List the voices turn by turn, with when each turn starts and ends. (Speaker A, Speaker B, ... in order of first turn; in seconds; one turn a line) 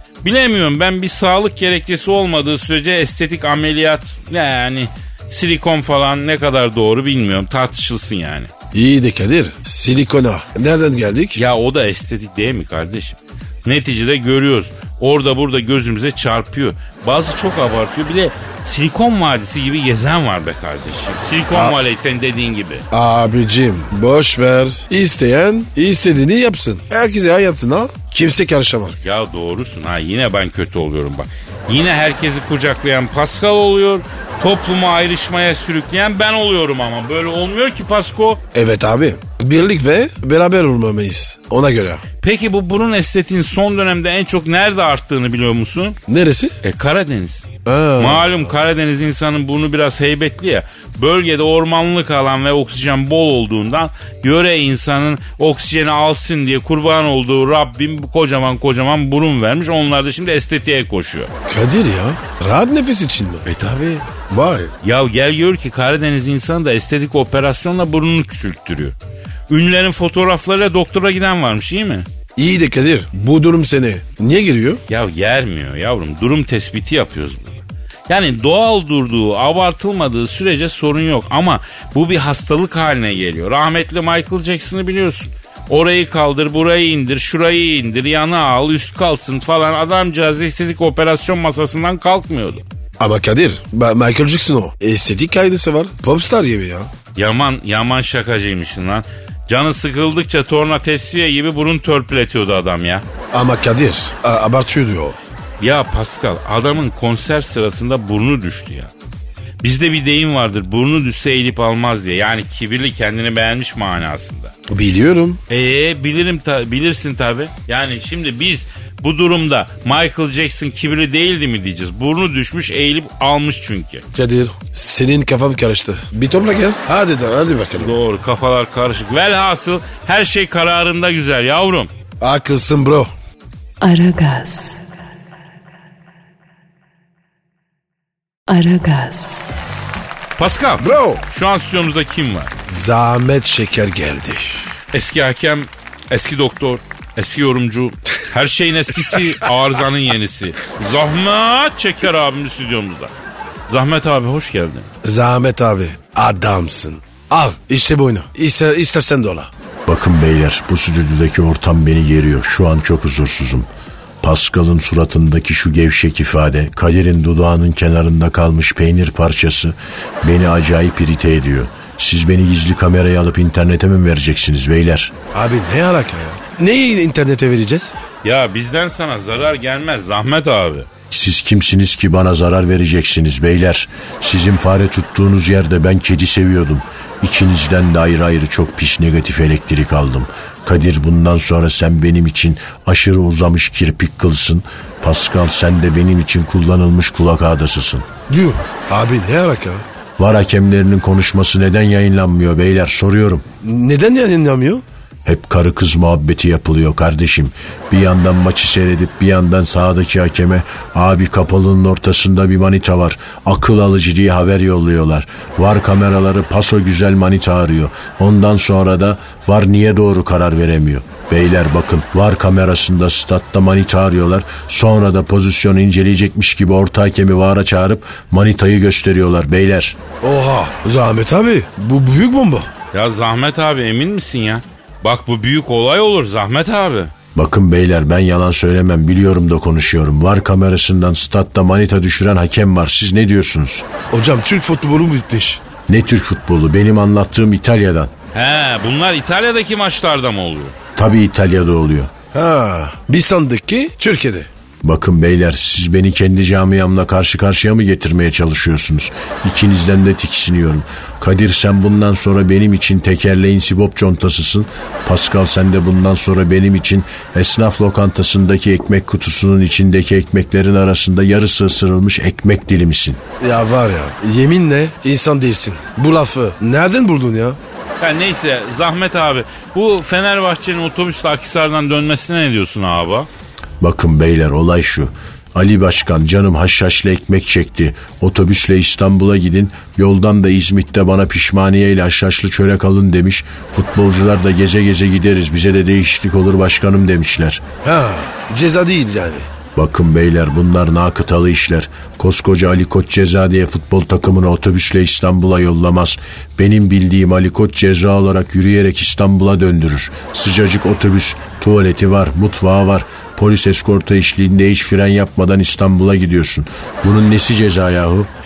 Speaker A: 0.2-8.5
Speaker B: 8.7-11.4
Speaker A: 11.3-22.9
Speaker B: 21.5-21.8
Speaker B: 22.9-29.0
Speaker A: 29.0-38.4
Speaker B: 38.5-42.0
Speaker A: 42.2-46.0
Speaker B: 46.1-46.5
Speaker A: 46.6-61.3
Speaker B: 47.6-48.5
Speaker B: 61.5-63.5
Speaker A: 63.5-64.1
Speaker B: 64.3-64.7
Speaker A: 64.8-68.9
Speaker A: 69.5-72.1
Speaker B: 72.3-74.8
Speaker A: 74.9-92.6
Speaker B: 93.0-96.9
Speaker A: 97.2-103.0
Speaker B: 103.3-105.2
Speaker A: 105.6-108.9
Speaker A: 109.6-114.5
Speaker B: 114.7-115.4
Speaker A: 115.5-124.0
Speaker B: 124.1-127.9
Speaker A: 127.8-131.9
Speaker B: 132.2-133.1
Speaker C: 133.8-134.8
Speaker C: 138.5-139.5
Speaker A: 140.4-142.6
Speaker B: 140.8-141.2
Speaker B: 142.7-144.7
Speaker A: 144.9-153.1
Speaker A: 153.7-154.9
Speaker B: 155.0-159.5
Speaker D: 159.9-163.7
Speaker D: 164.2-175.1
Speaker B: 175.3-177.9
Speaker A: 178.2-180.9
Speaker D: 181.1-198.1
Speaker B: 198.3-199.8
Speaker D: 200.2-203.4
Speaker B: 203.6-204.8
Speaker D: 205.2-230.0
Speaker B: 230.2-232.7
Speaker A: 232.9-237.1
Speaker D: 237.3-243.9
Speaker B: 244.1-245.6
Speaker D: 245.9-248.1
Speaker A: 248.3-250.8
Speaker D: 250.9-252.1
Speaker B: 252.3-254.5
Speaker D: 254.8-273.2
Speaker B: 273.4-277.6
Speaker A: 278.0-283.3
Speaker D: 283.8-297.6
Speaker B: 297.8-299.5
Speaker D: 299.7-318.3